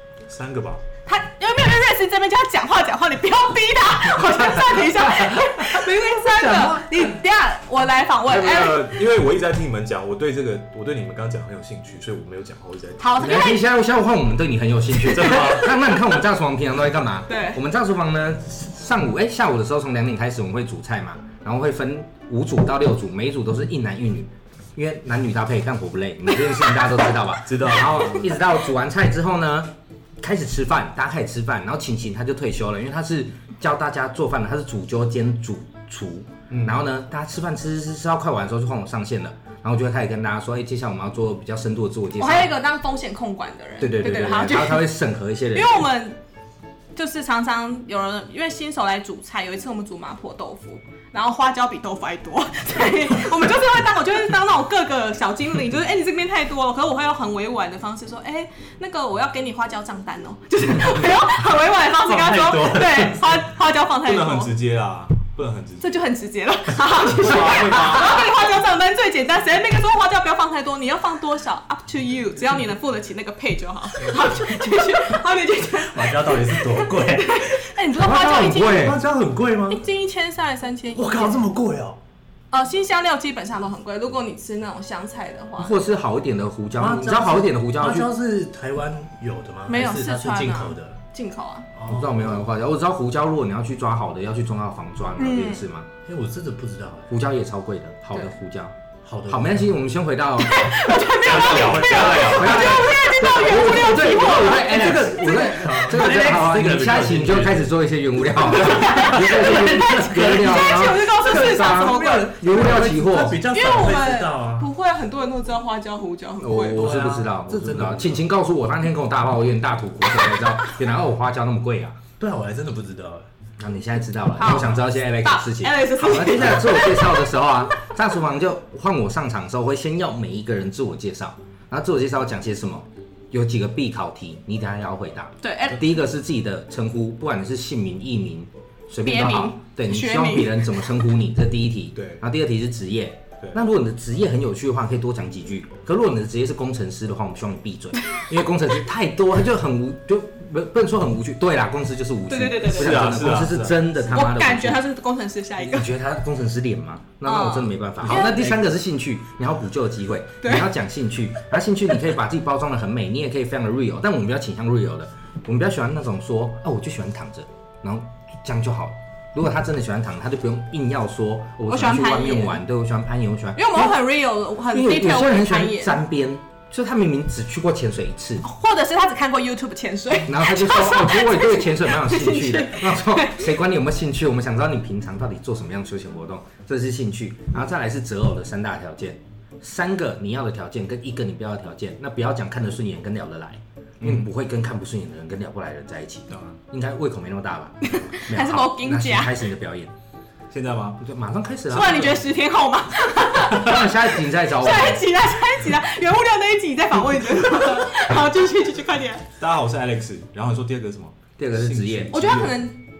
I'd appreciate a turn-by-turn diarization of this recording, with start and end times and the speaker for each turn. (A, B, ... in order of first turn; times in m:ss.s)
0:00.3-0:00.8 A
0:01.0-0:08.9 B
0:04.8-0:05.4 C
0:08.2-0:13.0 A
0:13.0-0:13.6 B
0:13.2-0:42.5 C
0:15.0-0:15.7 A
0:17.3-0:17.6 B
0:27.4-0:28.2 A
0:36.5-0:36.8 A
0:42.2-0:44.9 B
0:43.8-0:45.8 C
0:45.5-0:46.2 B
0:46.9-1:04.5 B
1:01.9-1:03.3 D
1:04.0-1:06.0 A
1:05.8-1:18.9 B
1:07.0-1:08.3 A
1:15.8-1:17.5 D
1:17.9-1:19.0 C
1:18.6-1:19.8 D
1:19.7-1:21.4 B
1:20.9-1:22.0 D
1:22.5-1:25.7 B
1:25.6-1:28.1 C
1:26.8-1:31.0 D
1:29.7-1:31.7 B
1:31.7-1:32.4 D
1:31.9-1:35.9 C
1:35.2-1:35.6 B
1:36.0-1:37.2 D
1:37.1-1:38.8 C
1:39.0-1:39.7 D
1:39.3-1:40.9 C
1:40.4-1:45.9 B
1:41.2-1:42.9 A
1:41.2-1:42.5 D
1:42.2-1:53.5 C
1:44.1-1:47.7 D
1:48.3-1:54.7 D
1:48.6-1:52.4 B
1:53.5-1:57.1 B
1:56.4-2:02.0 C
1:56.7-1:58.3 D
2:02.2-2:03.3 D
2:03.6-2:34.8 C
2:04.4-2:07.3 B
2:04.5-2:04.7 D
2:15.4-2:15.9 B
2:19.0-2:20.7 B
2:21.9-2:22.2 A
2:32.3-2:33.3 B
2:32.6-2:33.9 A
2:34.1-2:35.9 B
2:35.6-2:54.0 C
2:37.2-2:38.5 B
2:40.4-2:40.7 B
2:51.7-2:52.6 B
2:53.6-2:56.0 B
2:54.7-2:58.4 C
2:58.4-3:03.5 B
3:00.2-3:19.9 C
3:14.0-3:14.3 A
3:16.3-3:16.6 A
3:17.8-3:19.4 B
3:20.5-3:21.0 A
3:21.0-3:22.2 C
3:21.7-3:29.2 B
3:23.5-3:25.0 C
3:29.4-3:32.6 A
3:31.4-3:32.2 C
3:32.1-3:32.8 B